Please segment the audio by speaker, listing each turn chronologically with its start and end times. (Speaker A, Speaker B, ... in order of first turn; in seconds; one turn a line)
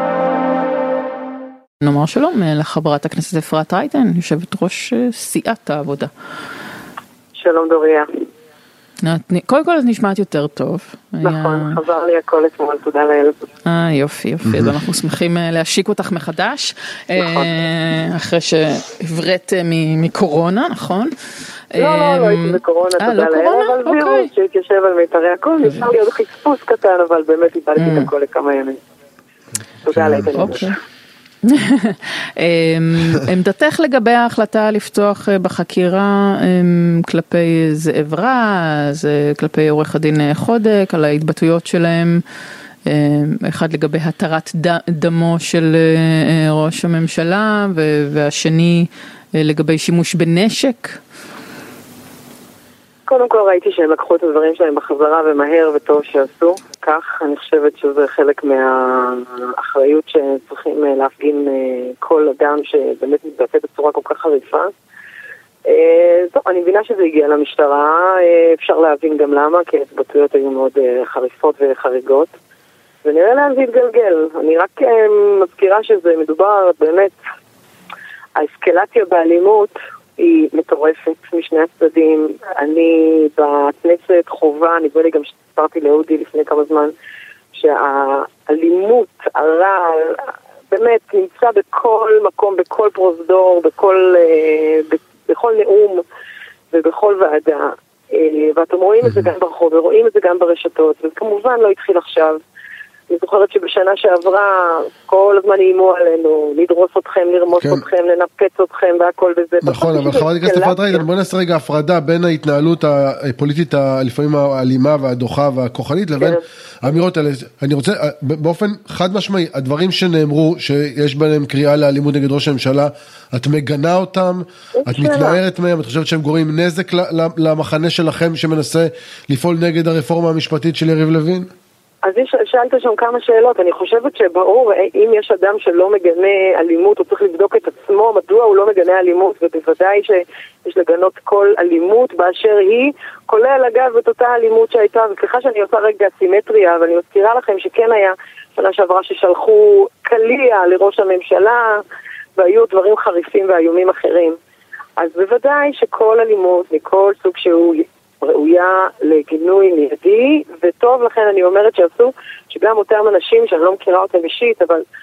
Speaker A: 1.8-6.1
Speaker B: 7.3-8.1
Speaker A: 9.0-11.8
Speaker B: 11.2-13.4
Speaker A: 13.7-21.1
Speaker B: 17.1-17.5
Speaker A: 21.7-24.3
Speaker B: 21.8-28.8
Speaker A: 27.8-28.1
Speaker B: 29.8-30.7
Speaker C: 29.9-30.4
Speaker A: 30.3-30.7
Speaker A: 31.4-42.2
Speaker A: 42.9-51.0
Speaker B: 53.1-64.7
Speaker B: 65.7-72.3
Speaker B: 73.0-77.2
Speaker B: 78.3-86.9
Speaker B: 87.5-96.0
Speaker B: 96.7-102.4
Speaker B: 103.1-111.0
Speaker C: 107.5-107.8
Speaker C: 109.6-131.5
Speaker B: 124.7-125.4
Speaker B: 132.0-151.8
Speaker B: 152.4-154.4
Speaker B: 155.0-164.8